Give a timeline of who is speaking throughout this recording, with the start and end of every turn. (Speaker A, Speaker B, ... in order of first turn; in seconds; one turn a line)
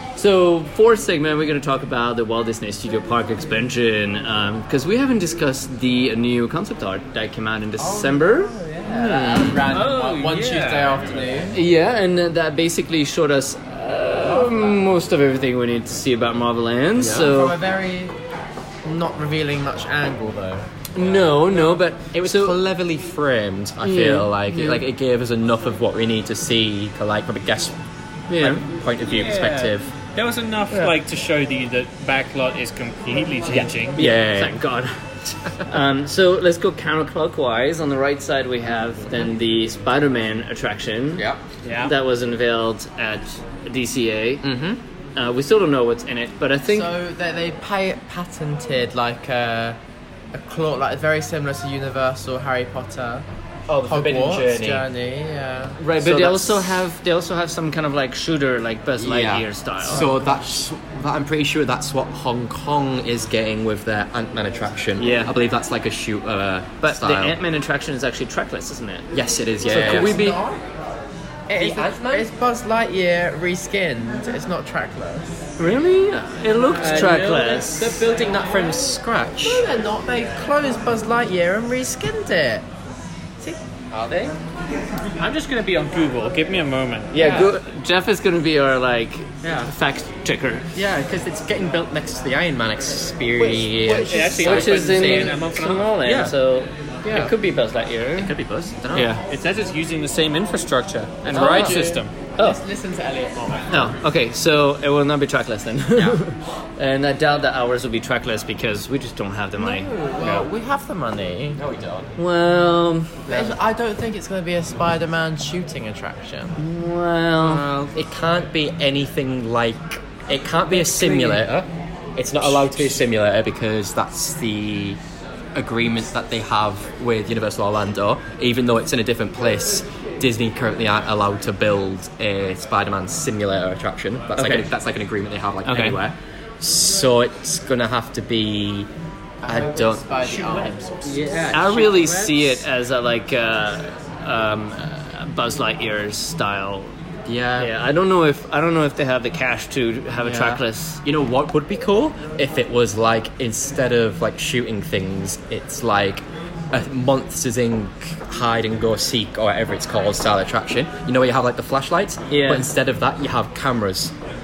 Speaker A: 0.2-9.6
Speaker B: 7.8-11.6
Speaker C: 8.9-9.6
Speaker D: 9.7-11.4
Speaker A: 11.5-17.6
Speaker B: 14.2-14.9
Speaker C: 17.0-17.3
Speaker B: 17.1-18.2
Speaker B: 18.8-20.7
Speaker A: 20.9-22.6
Speaker C: 22.1-27.8
Speaker A: 23.8-24.8
Speaker A: 28.3-28.6
Speaker C: 28.4-29.9
Speaker D: 29.0-34.0
Speaker C: 33.5-34.6
Speaker A: 33.5-35.0
Speaker A: 35.6-41.3
Speaker C: 41.2-41.4
Speaker D: 41.6-41.9
Speaker A: 41.8-44.5
Speaker C: 44.4-44.8
Speaker A: 45.2-46.9
Speaker B: 46.7-49.8
Speaker B: 50.3-53.2
Speaker C: 53.7-54.9
Speaker B: 53.8-55.8
Speaker A: 55.8-60.1
Speaker C: 55.9-56.7
Speaker C: 59.0-67.4
Speaker B: 59.9-60.4
Speaker A: 65.0-65.3
Speaker A: 66.8-69.1
Speaker C: 69.1-70.2
Speaker A: 69.7-70.4
Speaker B: 69.7-70.6
Speaker B: 71.5-75.5
Speaker C: 71.6-72.3
Speaker A: 75.6-78.0
Speaker C: 76.6-79.7
Speaker B: 79.4-82.7
Speaker C: 83.9-84.4
Speaker D: 85.2-87.5
Speaker A: 87.1-90.7
Speaker C: 87.2-87.5
Speaker C: 89.4-89.7
Speaker C: 90.8-95.5
Speaker A: 93.4-98.3
Speaker D: 94.1-96.2
Speaker C: 96.0-96.4
Speaker C: 97.0-97.3
Speaker C: 98.2-99.2
Speaker A: 98.9-99.2
Speaker D: 99.3-102.1
Speaker B: 101.3-103.9
Speaker C: 101.3-101.8
Speaker A: 103.7-109.9
Speaker C: 105.9-106.2
Speaker B: 109.6-111.6
Speaker C: 110.2-110.5
Speaker C: 111.6-112.2
Speaker A: 112.2-113.2
Speaker C: 113.2-113.6
Speaker B: 113.3-116.6
Speaker A: 116.6-117.7
Speaker C: 117.4-125.0
Speaker B: 120.7-121.4
Speaker B: 122.5-123.0
Speaker C: 125.5-138.9
Speaker A: 134.4-134.7
Speaker A: 135.7-136.0
Speaker B: 139.4-141.6
Speaker C: 139.4-142.6
Speaker A: 141.5-146.9
Speaker C: 147.3-147.7
Speaker A: 147.6-151.0
Speaker C: 150.2-164.1
Speaker A: 162.3-162.7